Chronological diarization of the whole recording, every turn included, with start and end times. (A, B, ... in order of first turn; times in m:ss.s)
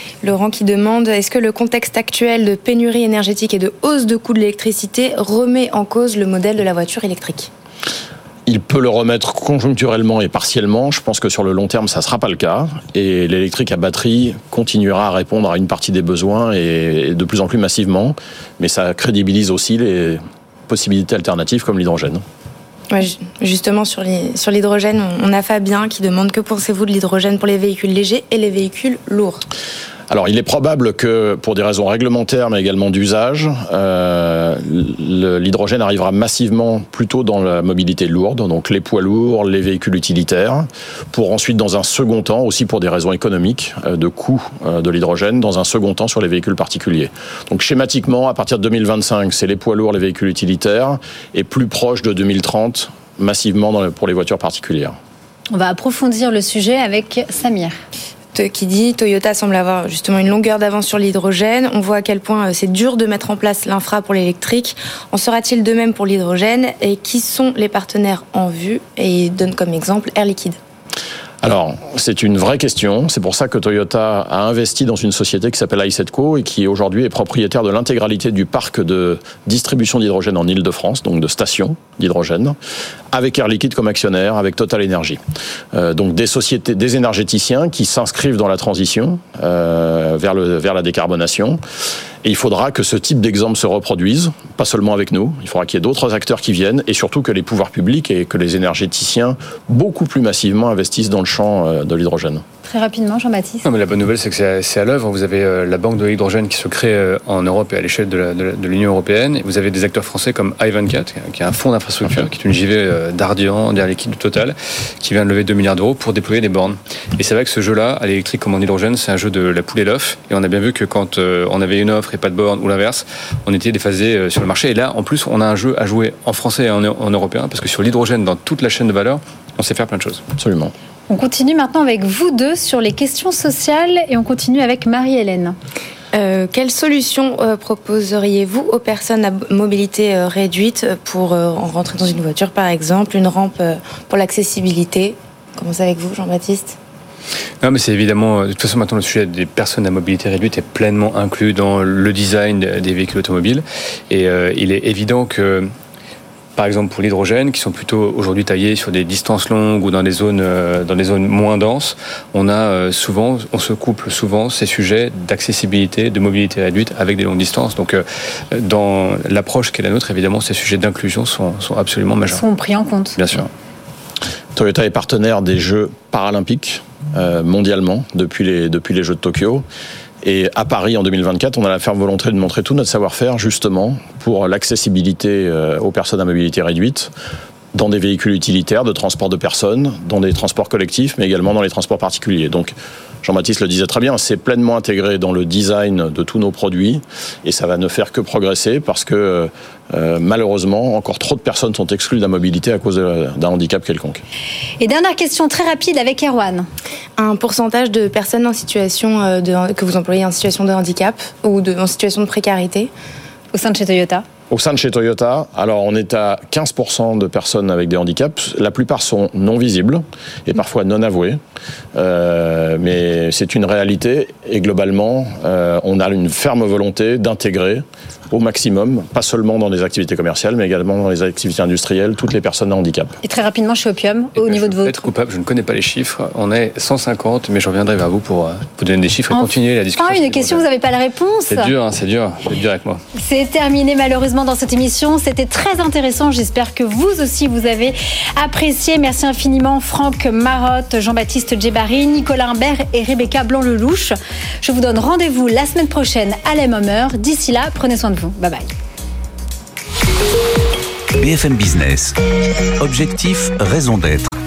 0:00.2-0:07.5 A
0:08.5-0:22.2 B
0:22.9-0:29.4 A
0:30.1-0:55.0 B
0:55.5-0:57.8 C
0:58.3-1:10.6 A
1:11.4-1:22.6 B
1:23.1-1:25.2 B
1:25.7-1:31.6 B
1:32.2-1:42.4 B
1:42.6-1:43.7 C
1:43.6-2:10.2 D
2:10.4-2:10.7 B
2:11.1-2:15.6 C
2:16.1-2:26.8 A
2:27.6-2:35.7 D
2:36.6-2:52.4 D
2:52.3-2:53.2 C
2:53.2-2:53.5 D
2:54.6-2:59.6 B
3:00.2-3:07.1 B
3:07.7-3:24.2 B
3:24.8-3:26.7 C
3:27.2-3:32.9 A
3:33.5-3:34.2 C
3:34.5-3:41.4 B
3:42.0-3:53.2 B
3:53.2-3:55.1 C
3:54.4-4:00.6 D
3:59.3-4:01.7 C
4:01.5-4:03.0 D
4:03.2-4:18.7 C
4:21.2-4:22.2 E
4:22.8-4:24.3 E